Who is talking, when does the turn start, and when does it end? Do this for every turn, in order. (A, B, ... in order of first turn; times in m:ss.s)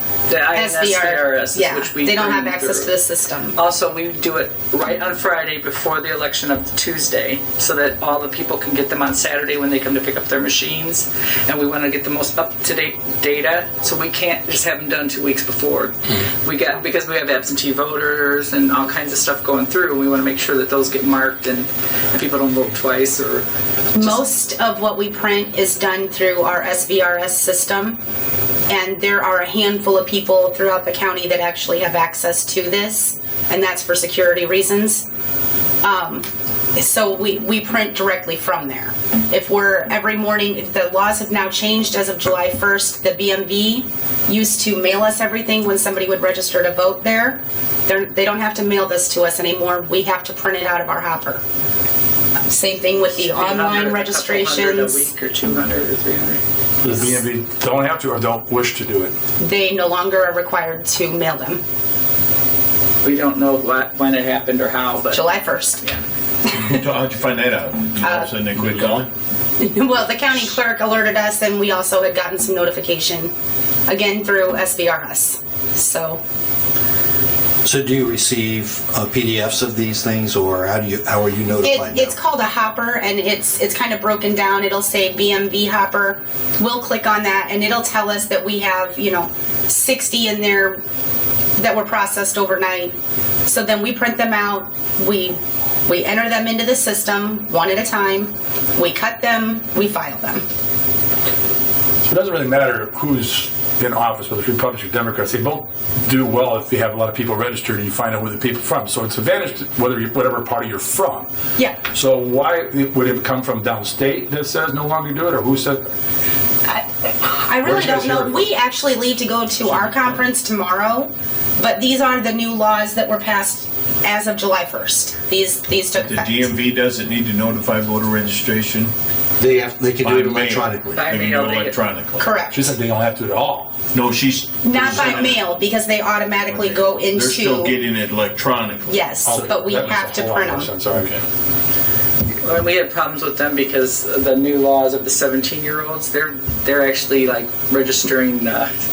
0:00.3-0:02.9 A
0:00.5-0:03.6 B
0:03.6-0:24.3 A
0:24.0-0:28.0 B
0:28.7-0:35.0 B
0:35.8-0:51.4 B
0:52.5-0:55.1 B
0:53.0-0:56.4 A
0:56.8-0:59.2 C
0:59.4-1:01.6 B
1:03.0-1:05.3 A
1:05.1-1:05.8 B
1:06.5-1:09.1 D
1:08.0-1:08.3 B
1:09.6-1:13.3 B
1:13.9-1:16.2 B
1:17.6-1:22.1 E
1:21.6-1:30.8 B
1:31.6-1:32.9 B
1:33.5-1:40.4 B
1:42.1-1:51.3 C
1:51.8-1:55.9 C
1:56.7-2:06.5 B
1:57.6-1:58.4 C
2:06.0-2:08.9 D
2:09.4-2:11.0 E
2:10.0-2:12.3 D
2:11.0-2:11.8 A
2:12.2-2:12.7 B
2:12.5-2:13.7 C
2:13.9-2:15.4 D
2:14.6-2:17.8 B
2:16.5-2:19.0 D
2:18.9-2:20.7 B
2:19.2-2:21.1 C
2:22.4-2:28.7 A